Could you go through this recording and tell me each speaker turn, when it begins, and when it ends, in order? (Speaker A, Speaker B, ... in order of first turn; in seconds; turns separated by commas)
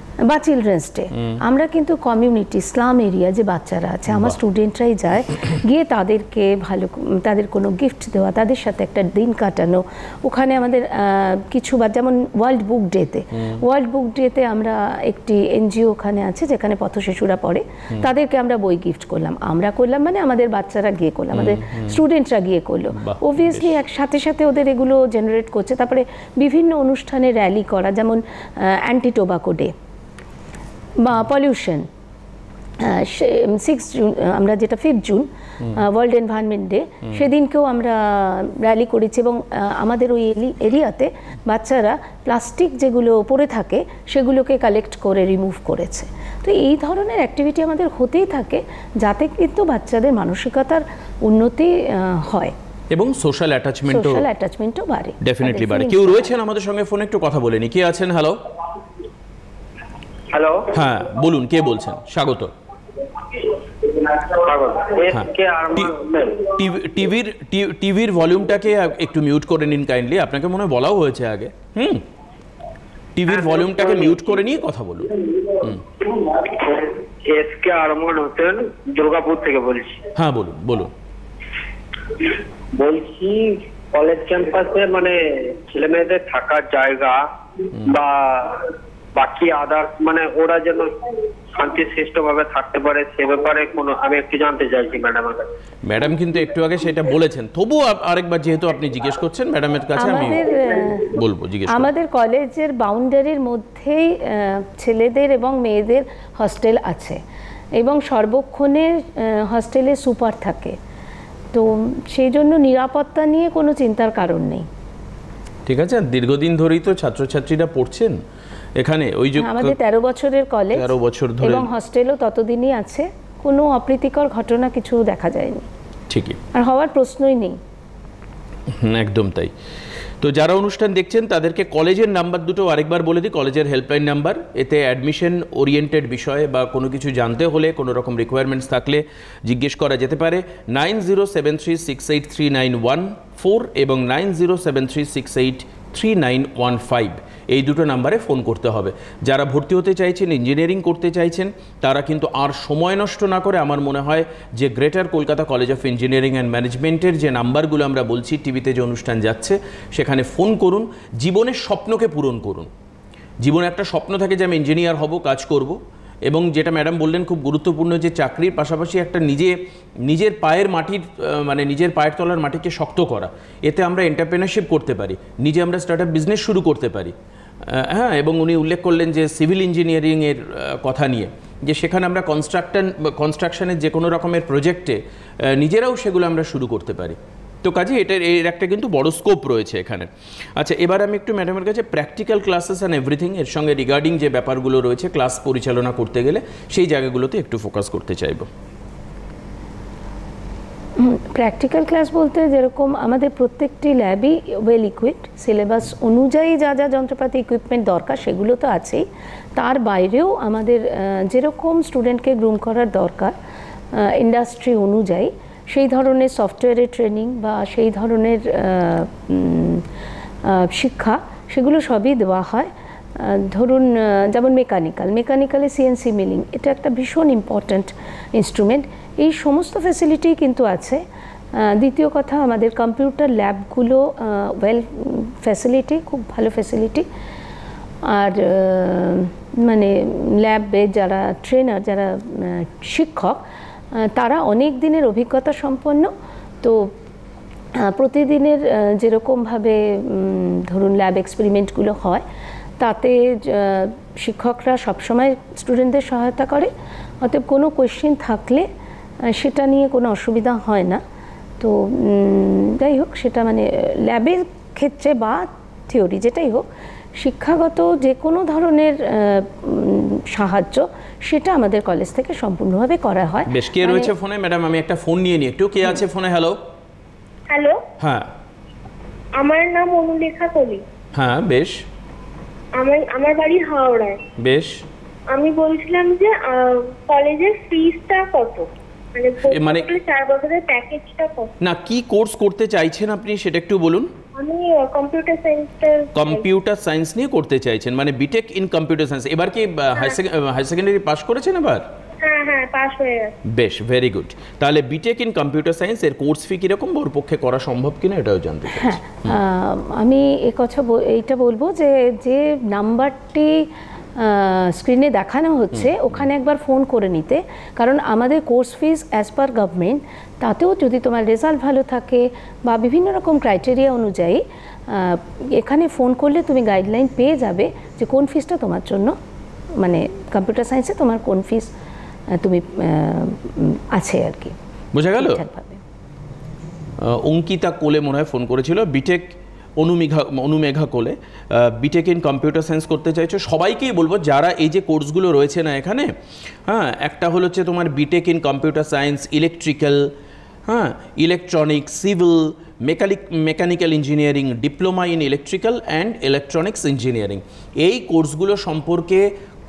Speaker A: 0.2-29.7, Speaker B: 4.1-4.3, Speaker B: 21.3-22.0, Speaker B: 22.9-23.7, Speaker A: 31.0-31.9, Speaker A: 32.8-52.5, Speaker B: 52.9-54.2, Speaker A: 53.9-56.3, Speaker B: 55.2-58.4, Speaker C: 60.3-60.7, Speaker B: 60.7-62.5, Speaker C: 63.3-66.5, Speaker B: 65.1-65.9, Speaker B: 66.4-72.0, Speaker B: 73.1-75.8, Speaker C: 73.4-74.2, Speaker C: 75.2-80.0, Speaker B: 80.2-80.9, Speaker C: 82.1-87.2, Speaker C: 87.7-90.9, Speaker C: 91.5-95.5, Speaker B: 95.8-101.9, Speaker A: 100.0-101.2, Speaker A: 101.7-107.2, Speaker A: 107.8-110.8, Speaker A: 111.5-114.7, Speaker B: 115.7-118.2, Speaker B: 118.8-119.8, Speaker A: 119.4-125.7, Speaker B: 120.7-121.7, Speaker B: 126.1-126.4, Speaker A: 126.5-127.6, Speaker B: 128.7-129.5, Speaker B: 130.2-162.7, Speaker B: 163.4-198.5, Speaker A: 201.0-209.0, Speaker A: 209.6-213.3, Speaker A: 213.9-219.8, Speaker A: 220.4-231.0, Speaker A: 231.6-237.1, Speaker A: 238.1-246.1, Speaker A: 246.6-246.9, Speaker A: 247.7-252.2, Speaker A: 252.8-256.7, Speaker A: 257.2-258.6, Speaker A: 259.3-261.0, Speaker A: 261.6-274.1, Speaker B: 273.5-276.6, Speaker D: 277.5-277.8, Speaker B: 278.0-278.3, Speaker D: 279.4-280.8, Speaker B: 281.1-281.8, Speaker D: 282.8-284.2, Speaker B: 284.4-284.8, Speaker D: 285.3-291.5, Speaker B: 289.5-289.9, Speaker B: 291.6-294.1, Speaker D: 294.3-296.4, Speaker B: 296.1-301.9, Speaker D: 302.2-303.4, Speaker B: 303.4-309.4, Speaker A: 308.7-329.1, Speaker A: 329.8-331.7, Speaker A: 332.3-334.5, Speaker B: 334.9-335.4, Speaker A: 335.1-335.8, Speaker B: 337.0-346.1, Speaker B: 346.7-350.1, Speaker B: 350.7-359.3